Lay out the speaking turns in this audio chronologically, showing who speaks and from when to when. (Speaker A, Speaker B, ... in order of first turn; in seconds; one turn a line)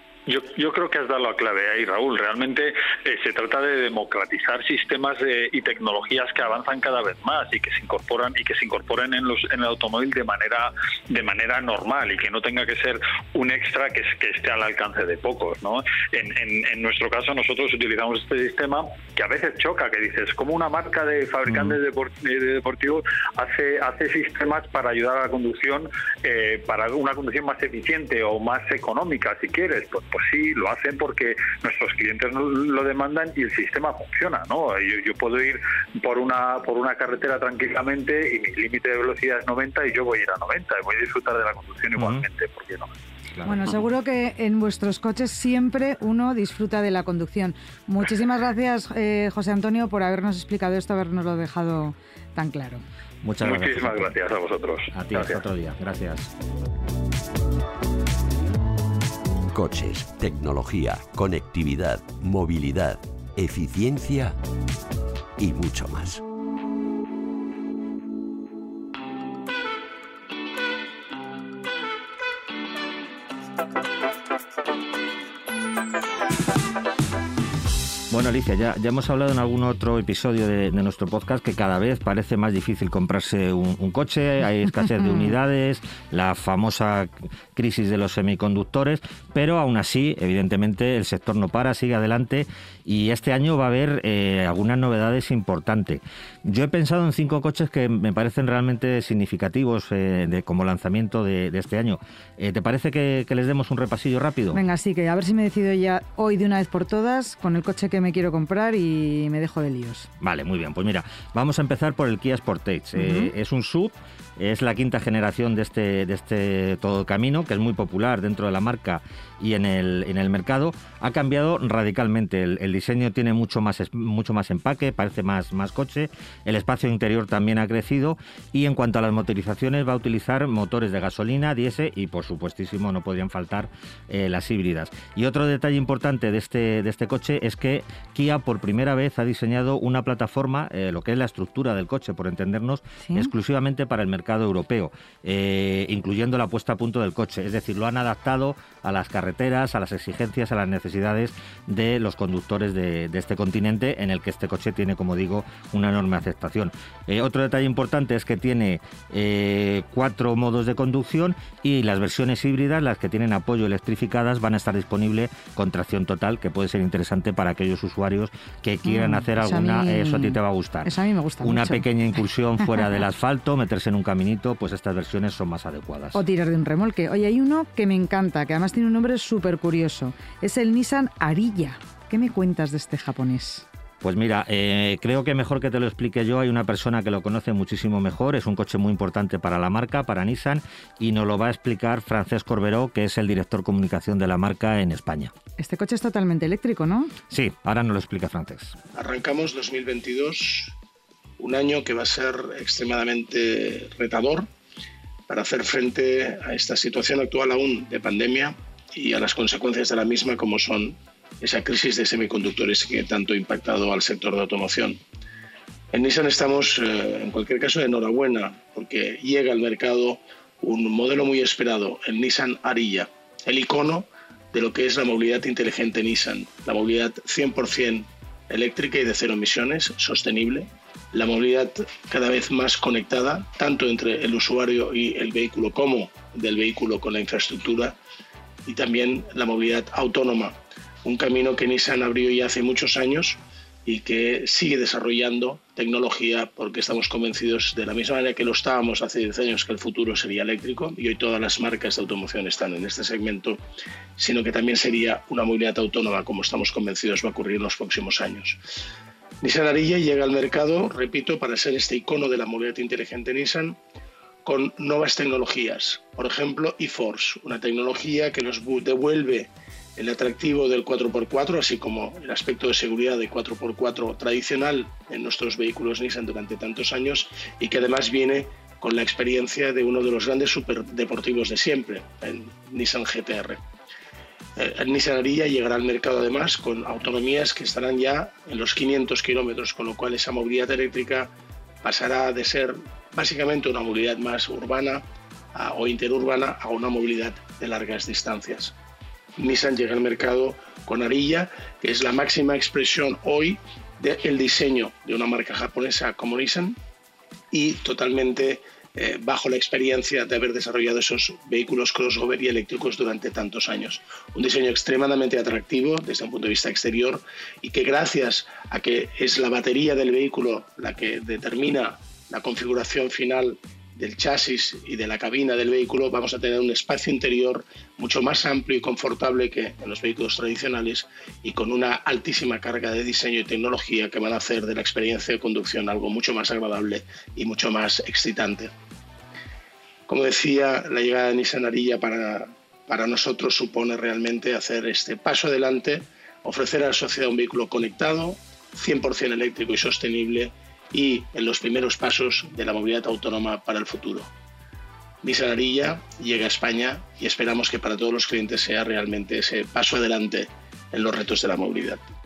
Speaker A: 0.2-42.9
Speaker B: 21.5-21.8
Speaker B: 42.0-42.2
Speaker B: 43.3-43.8
Speaker C: 43.4-52.8
Speaker B: 53.2-54.1
Speaker A: 53.4-55.4
Speaker B: 54.9-56.3
Speaker D: 59.5-64.3
Speaker D: 65.4-66.2
Speaker B: 78.1-104.6
Speaker C: 104.5-110.1
Speaker B: 110.2-176.2
Speaker C: 113.0-113.3
Speaker C: 143.0-143.3
Speaker C: 168.8-171.8
Speaker C: 176.1-183.7
Speaker B: 184.0-195.3
Speaker C: 195.6-197.1
Speaker B: 197.3-198.8
Speaker E: 198.9-200.8
Speaker E: 201.4-204.5
Speaker E: 205.3-215.0
Speaker E: 215.9-237.9
Speaker E: 238.6-253.6
Speaker E: 254.2-258.6
Speaker E: 259.4-263.8
Speaker E: 264.4-283.6
Speaker E: 284.6-291.3
Speaker E: 291.8-298.7
Speaker E: 299.4-306.8
Speaker E: 307.5-338.7
Speaker E: 340.1-354.3
Speaker E: 355.2-362.0